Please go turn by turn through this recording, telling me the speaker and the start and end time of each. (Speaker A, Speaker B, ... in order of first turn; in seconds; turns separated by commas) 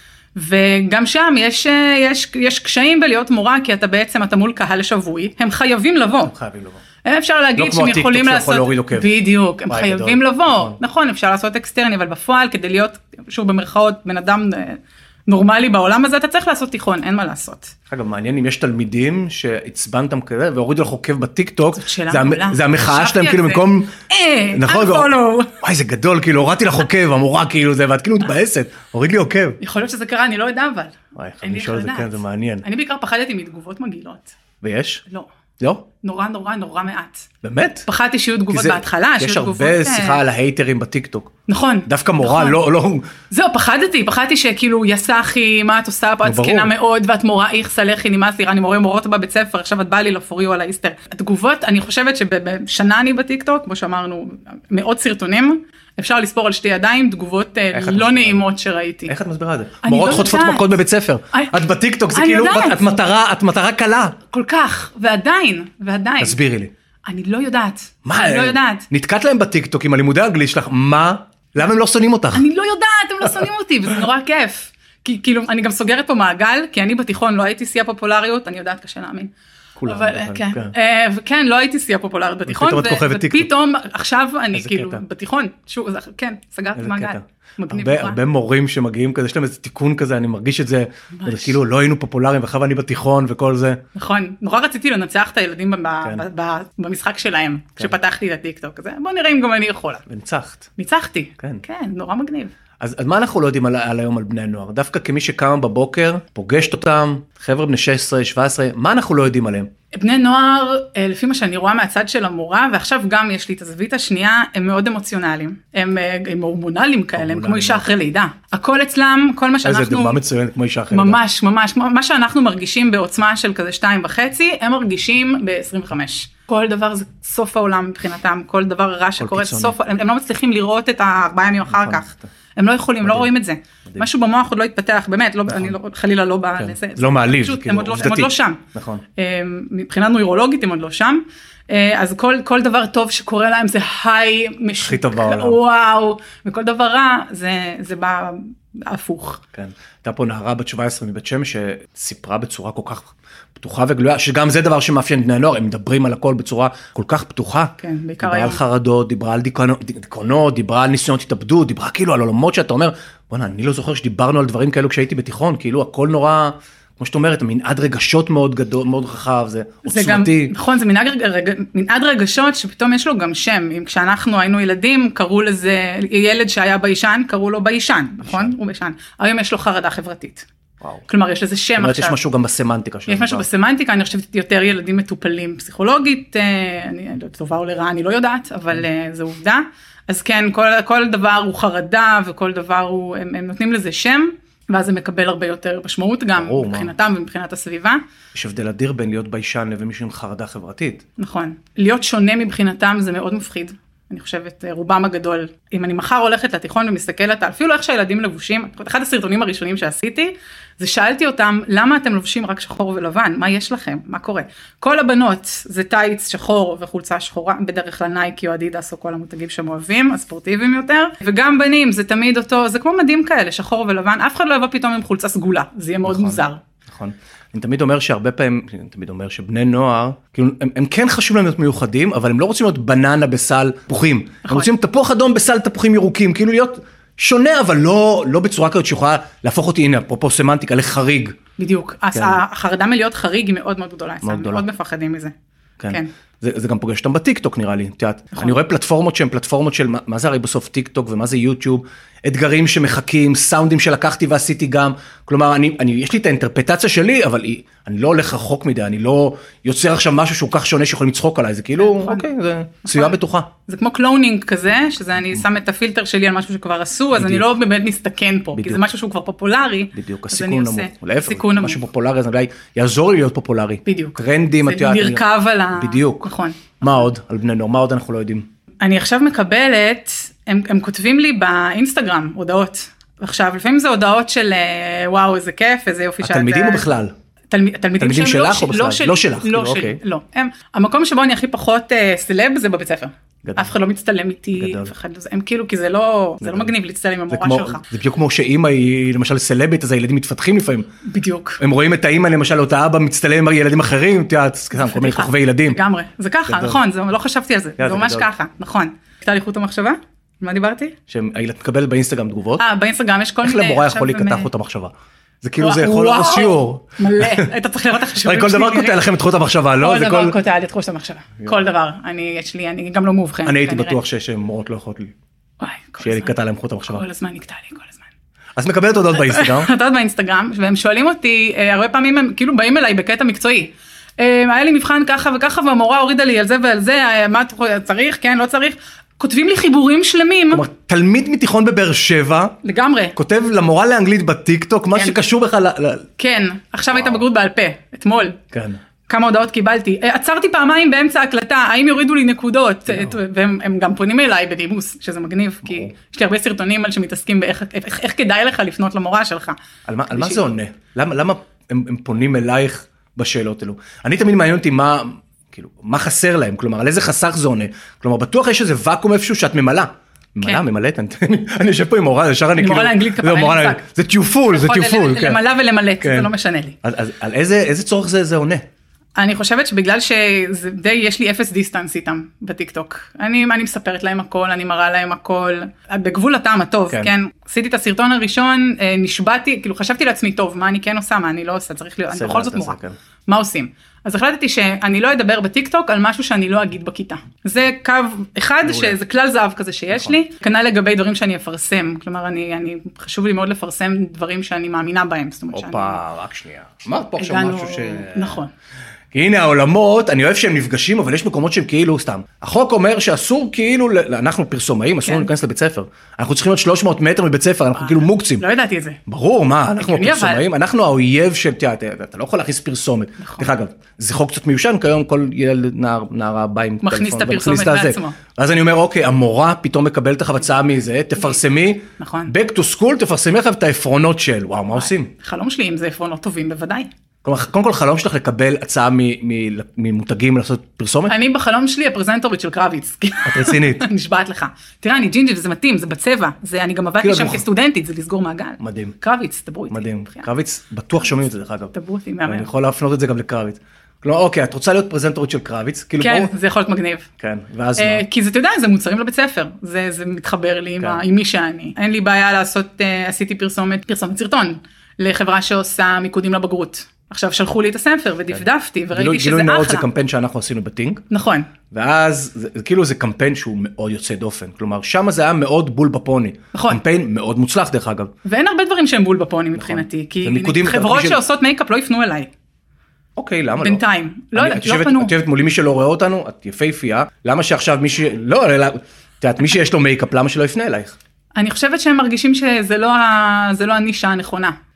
Speaker A: 0.3-6.3, Speaker B: 6.3-6.8, Speaker A: 7.0-17.7, Speaker B: 7.6-9.2, Speaker B: 9.7-10.8, Speaker B: 17.9-23.9, Speaker A: 21.8-25.6, Speaker B: 24.5-29.6, Speaker A: 29.6-34.4, Speaker B: 31.2-32.7, Speaker B: 34.6-35.0, Speaker B: 35.6-35.9, Speaker A: 36.0-37.3, Speaker B: 37.4-37.9, Speaker A: 37.9-40.2, Speaker B: 38.5-41.3, Speaker A: 41.5-42.6, Speaker B: 41.9-43.1, Speaker A: 43.3-59.1, Speaker B: 46.2-46.7, Speaker B: 57.7-58.4, Speaker B: 59.1-64.2, Speaker A: 59.8-60.7, Speaker A: 62.1-62.8, Speaker A: 64.3-66.4, Speaker B: 66.2-66.7, Speaker A: 67.0-68.9, Speaker B: 68.0-72.5, Speaker A: 72.3-79.3, Speaker B: 79.8-80.7, Speaker A: 79.9-88.2, Speaker B: 82.5-83.5, Speaker B: 84.5-85.0, Speaker B: 86.8-93.8, Speaker A: 91.2-91.5, Speaker A: 94.0-100.0, Speaker B: 100.1-100.7, Speaker A: 100.8-102.5, Speaker B: 101.4-101.6, Speaker B: 102.8-109.7, Speaker A: 109.9-120.2, Speaker B: 117.2-117.9, Speaker B: 119.6-121.2, Speaker A: 120.9-138.6, Speaker B: 129.2-129.8, Speaker B: 131.7-132.2, Speaker B: 135.5-135.8, Speaker B: 136.6-139.0, Speaker A: 139.2-149.4, Speaker B: 144.8-145.6, Speaker B: 149.5-170.5, Speaker A: 157.8-158.6, Speaker A: 169.9-180.5, Speaker B: 178.2-178.5, Speaker A: 181.1-182.2, Speaker B: 181.8-183.5, Speaker A: 183.1-198.0, Speaker B: 196.3-196.9, Speaker B: 198.3-201.1, Speaker A: 201.2-226.6, Speaker B: 226.1-241.4, Speaker A: 241.6-245.3, Speaker B: 242.1-242.4, Speaker B: 244.2-244.7, Speaker B: 245.8-263.5, Speaker A: 261.8-262.3, Speaker A: 262.9-263.2, Speaker A: 263.7-271.8, Speaker B: 267.1-267.5, Speaker B: 268.6-268.9, Speaker B: 269.9-278.5, Speaker A: 273.9-277.0, Speaker A: 278.8-286.9, Speaker B: 286.2-287.1, Speaker A: 287.5-297.8, Speaker B: 288.0-290.0, Speaker B: 293.4-293.7, Speaker B: 294.6-294.9, Speaker B: 296.4-296.7, Speaker B: 297.3-300.9, Speaker A: 301.0-301.6, Speaker B: 301.6-305.8, Speaker A: 304.8-310.9, Speaker B: 306.5-306.8, Speaker B: 307.8-308.3, Speaker B: 311.1-312.6, Speaker A: 312.6-314.5, Speaker B: 313.4-314.9, Speaker B: 315.4-317.5, Speaker A: 315.6-319.0, Speaker B: 318.2-320.4, Speaker A: 319.8-324.0, Speaker B: 323.4-325.1, Speaker A: 325.6-326.3, Speaker B: 326.0-327.1, Speaker A: 326.9-328.1, Speaker B: 328.6-329.7, Speaker A: 329.1-340.6, Speaker B: 340.5-342.6, Speaker A: 342.6-343.2, Speaker B: 343.1-346.1, Speaker A: 346.2-348.4, Speaker B: 346.9-347.2, Speaker B: 348.5-348.8, Speaker A: 349.1-359.6, Speaker B: 352.9-353.2, Speaker B: 355.7-355.9, Speaker B: 359.9-375.4, Speaker A: 360.1-360.5, Speaker A: 372.6-373.8, Speaker A: 374.4-376.8, Speaker B: 376.0-376.3, Speaker B: 376.8-378.7, Speaker A: 379.2-406.0, Speaker B: 392.1-393.0, Speaker B: 398.6-399.0, Speaker B: 405.5-408.4, Speaker A: 407.2-408.5, Speaker B: 409.1-418.5, Speaker A: 415.0-415.3, Speaker A: 417.8-419.0, Speaker B: 419.1-435.1, Speaker A: 419.8-420.4, Speaker A: 423.2-423.5, Speaker A: 426.8-428.2, Speaker A: 432.0-432.3, Speaker A: 434.8-436.9, Speaker B: 437.2-441.1, Speaker A: 441.1-450.3, Speaker B: 443.2-443.9, Speaker B: 447.0-447.4, Speaker B: 448.6-449.0, Speaker B: 449.7-451.7, Speaker A: 451.7-452.5, Speaker B: 452.2-456.3, Speaker A: 456.0-457.1, Speaker B: 457.2-458.1, Speaker A: 457.8-469.9, Speaker B: 468.9-471.0, Speaker A: 471.1-471.5, Speaker B: 471.7-478.1, Speaker A: 476.5-476.8, Speaker A: 478.2-482.3, Speaker B: 479.6-481.2, Speaker B: 483.2-483.8, Speaker A: 483.6-485.1, Speaker B: 484.3-491.0, Speaker A: 491.4-494.6